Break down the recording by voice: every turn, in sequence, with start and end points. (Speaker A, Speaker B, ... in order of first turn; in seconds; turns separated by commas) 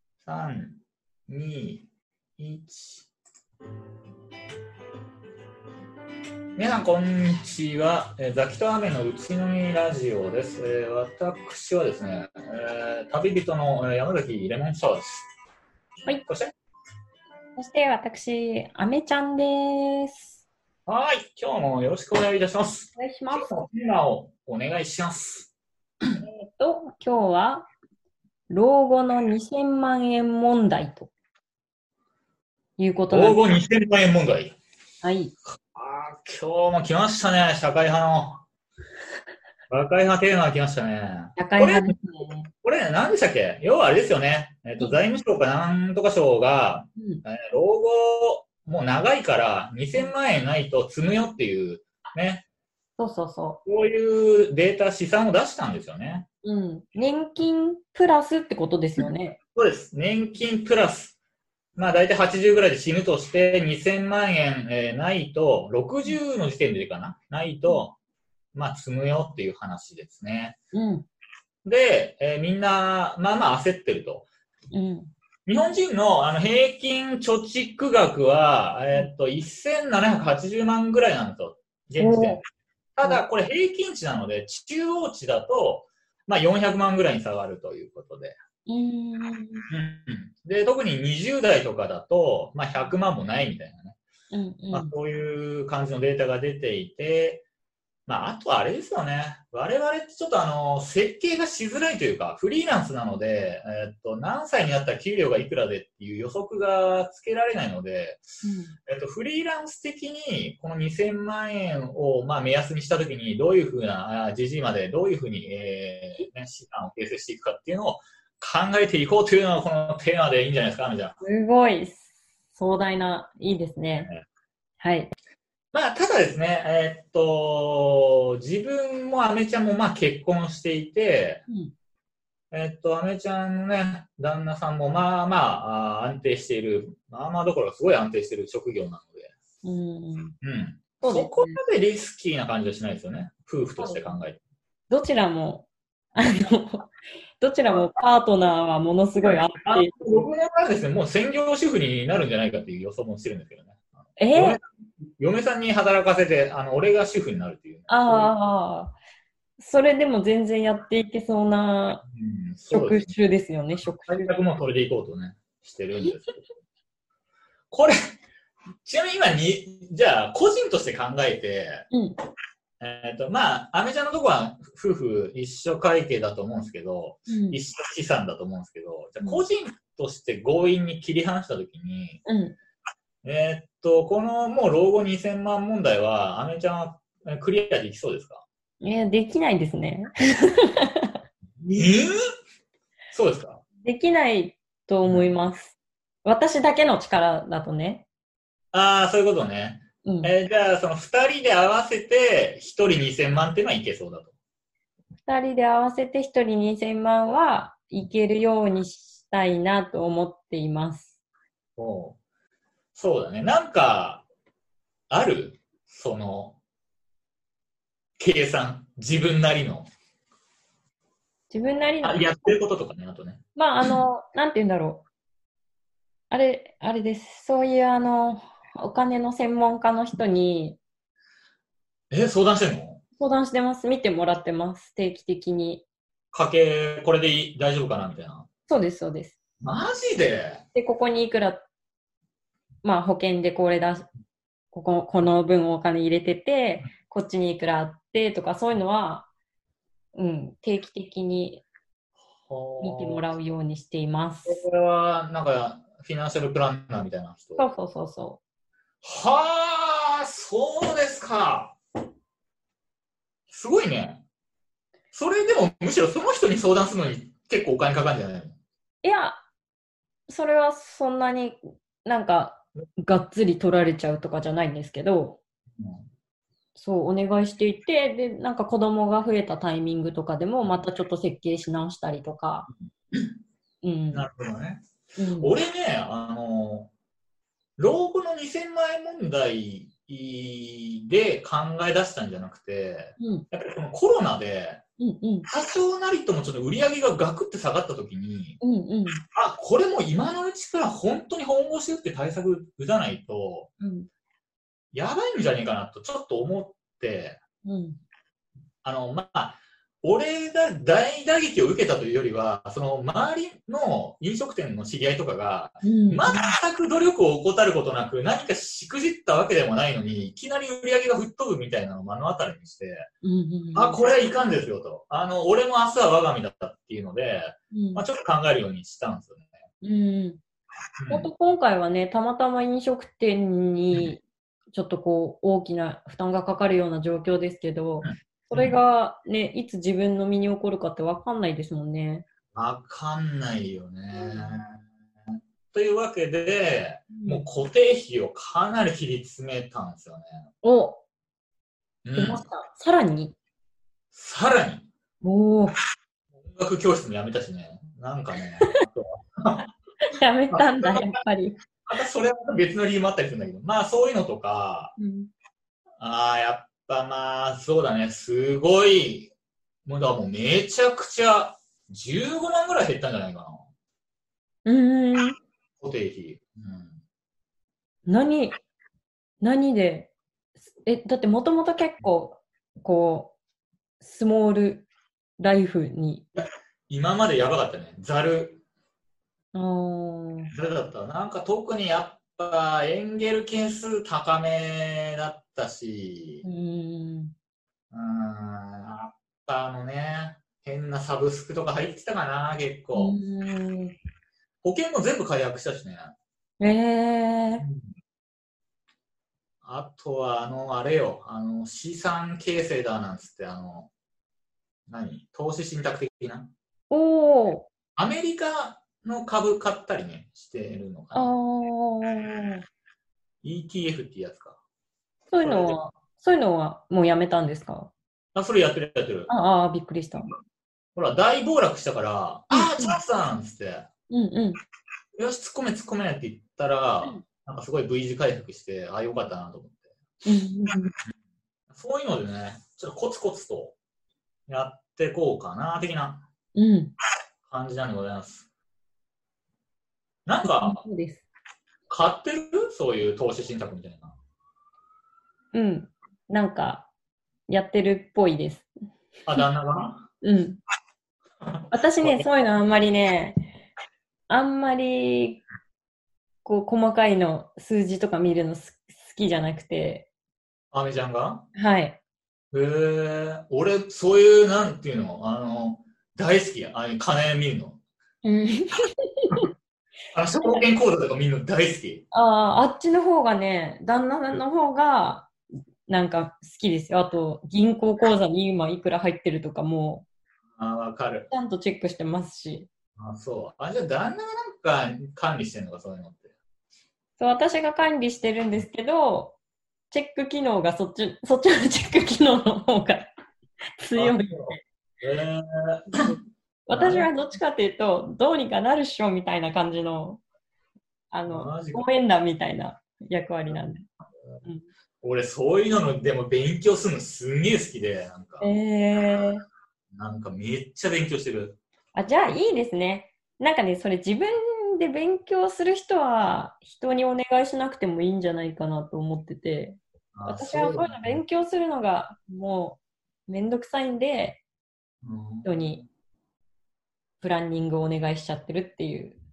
Speaker A: 0.2-1.9, Speaker A: 2.4-3.1, Speaker A: 6.6-15.2, Speaker A: 16.2-16.5, Speaker B: 17.6-20.4, Speaker A: 20.9-25.5, Speaker B: 22.9-23.6, Speaker B: 26.2-27.7, Speaker B: 28.5-31.1, Speaker B: 32.8-33.5, Speaker A: 33.1-34.5, Speaker B: 35.0-35.3, Speaker A: 35.5-38.4, Speaker A: 39.7-42.0, Speaker B: 41.4-42.5, Speaker A: 42.5-52.4, Speaker B: 47.0-47.2, Speaker B: 53.0-53.6, Speaker A: 53.6-56.2, Speaker B: 56.4-59.4, Speaker A: 59.5-61.2, Speaker A: 61.8-68.0, Speaker A: 68.5-70.6, Speaker B: 70.7-71.1, Speaker A: 71.6-74.3, Speaker B: 74.7-75.1, Speaker A: 75.5-82.4, Speaker B: 82.0-82.4, Speaker A: 83.0-88.4, Speaker B: 88.7-89.6, Speaker A: 89.7-94.0, Speaker B: 94.3-94.9, Speaker A: 94.7-97.4, Speaker A: 98.1-108.2, Speaker B: 108.4-108.7, Speaker A: 108.9-121.2, Speaker B: 121.2-124.1, Speaker B: 124.8-125.1, Speaker A: 125.7-131.4, Speaker B: 131.5-131.7, Speaker A: 132.5-139.3, Speaker B: 139.6-140.3, Speaker A: 140.4-144.4, Speaker B: 141.0-141.6, Speaker B: 143.8-144.1, Speaker B: 144.9-149.9, Speaker A: 149.2-154.6, Speaker B: 154.2-154.6, Speaker A: 155.2-158.3, Speaker B: 157.9-158.9, Speaker B: 159.6-162.0, Speaker A: 162.1-163.1, Speaker B: 162.7-164.2, Speaker A: 164.0-166.4, Speaker A: 167.7-167.9, Speaker A: 168.8-171.8, Speaker B: 171.9-172.2, Speaker A: 172.8-182.2, Speaker B: 177.3-177.6, Speaker B: 182.2-182.5, Speaker A: 183.2-188.4, Speaker B: 188.8-191.2, Speaker A: 191.6-192.1, Speaker A: 193.1-193.6, Speaker B: 193.8-198.1, Speaker A: 195.1-195.3, Speaker A: 198.7-204.3, Speaker B: 200.0-200.3, Speaker B: 205.3-211.1, Speaker A: 211.8-212.2, Speaker A: 212.9-214.2, Speaker A: 215.1-216.6, Speaker A: 218.2-219.9, Speaker B: 221.5-222.5, Speaker A: 222.0-223.4, Speaker B: 223.6-225.0, Speaker B: 226.3-230.8, Speaker A: 232.1-233.0, Speaker B: 233.2-235.8, Speaker A: 236.3-238.5, Speaker B: 238.7-239.3, Speaker A: 239.6-240.6, Speaker B: 240.7-241.7, Speaker B: 242.8-244.1, Speaker B: 244.7-249.3, Speaker B: 250.1-251.6, Speaker A: 252.4-253.3, Speaker B: 252.8-254.6, Speaker A: 254.4-257.6, Speaker B: 257.6-258.4, Speaker A: 259.0-261.8, Speaker A: 263.5-264.2, Speaker A: 265.1-268.6, Speaker B: 269.0-269.4, Speaker B: 270.3-275.4, Speaker A: 275.8-276.1, Speaker B: 276.8-282.7, Speaker B: 283.8-284.2, Speaker A: 284.1-284.8, Speaker B: 285.2-285.5, Speaker A: 285.4-286.9, Speaker A: 287.8-294.8, Speaker B: 293.2-293.4, Speaker B: 295.0-295.5, Speaker A: 295.4-298.6, Speaker B: 298.6-299.2, Speaker A: 299.3-303.7, Speaker B: 303.8-304.1, Speaker A: 304.9-307.4, Speaker B: 307.6-308.0, Speaker A: 308.8-323.1, Speaker B: 315.8-316.5, Speaker B: 323.2-324.0, Speaker A: 323.7-329.5, Speaker B: 327.7-328.0, Speaker B: 329.8-330.4, Speaker A: 331.0-331.3, Speaker B: 331.1-342.2, Speaker A: 338.0-338.8, Speaker A: 342.5-344.8, Speaker B: 344.1-344.6, Speaker A: 345.7-350.5, Speaker B: 347.1-347.4, Speaker B: 350.6-351.0, Speaker A: 352.0-352.4, Speaker B: 352.1-353.3, Speaker A: 354.1-354.9, Speaker B: 355.2-355.8, Speaker A: 356.4-359.6, Speaker B: 360.1-361.6, Speaker A: 360.5-361.1, Speaker A: 361.9-364.9, Speaker B: 365.0-365.3, Speaker A: 366.0-369.3, Speaker A: 369.8-373.6, Speaker B: 374.6-375.4, Speaker A: 375.8-377.0, Speaker B: 378.1-378.6, Speaker B: 379.4-380.1, Speaker B: 380.8-383.4, Speaker B: 384.0-384.9, Speaker B: 385.4-386.2, Speaker A: 386.4-388.6, Speaker B: 389.5-390.5, Speaker A: 390.5-396.4, Speaker B: 396.4-397.3, Speaker A: 397.9-403.2, Speaker B: 402.9-403.9, Speaker A: 404.6-406.1, Speaker B: 406.6-407.6, Speaker A: 407.6-407.9, Speaker A: 409.6-413.9, Speaker A: 414.9-416.5, Speaker B: 416.9-417.7, Speaker A: 417.9-421.3, Speaker B: 421.1-422.6, Speaker A: 423.4-424.6, Speaker B: 425.3-427.9, Speaker A: 425.4-425.9, Speaker A: 428.3-429.3, Speaker B: 429.3-430.3, Speaker A: 430.9-433.9, Speaker B: 432.5-433.0, Speaker B: 434.1-434.6, Speaker A: 435.2-439.9, Speaker B: 440.2-440.9, Speaker A: 441.7-443.8, Speaker A: 444.5-446.2, Speaker B: 446.5-446.9, Speaker A: 447.4-448.5, Speaker A: 450.2-450.8, Speaker B: 450.4-451.2, Speaker A: 451.9-454.1, Speaker B: 455.5-456.9, Speaker B: 457.5-458.7, Speaker A: 459.2-460.1, Speaker B: 460.2-460.6, Speaker A: 461.4-462.2, Speaker B: 461.7-463.3, Speaker B: 464.3-465.4, Speaker B: 466.4-470.1, Speaker A: 470.7-471.5, Speaker B: 471.5-472.0, Speaker A: 472.5-477.8, Speaker B: 478.2-479.4, Speaker A: 480.1-482.0, Speaker B: 482.1-485.3, Speaker B: 485.9-490.0, Speaker A: 490.6-491.3, Speaker B: 491.3-492.7, Speaker A: 493.0-496.3, Speaker B: 497.2-499.4, Speaker B: 499.9-503.1, Speaker B: 503.8-504.6, Speaker A: 503.9-506.1, Speaker B: 506.7-510.2, Speaker A: 506.7-507.1, Speaker B: 511.1-513.9, Speaker A: 511.3-511.9, Speaker A: 515.0-518.5, Speaker B: 518.4-519.4, Speaker A: 519.9-521.6, Speaker B: 521.9-534.4, Speaker A: 530.1-531.2, Speaker A: 535.0-535.8, Speaker B: 535.4-535.8, Speaker B: 537.2-539.2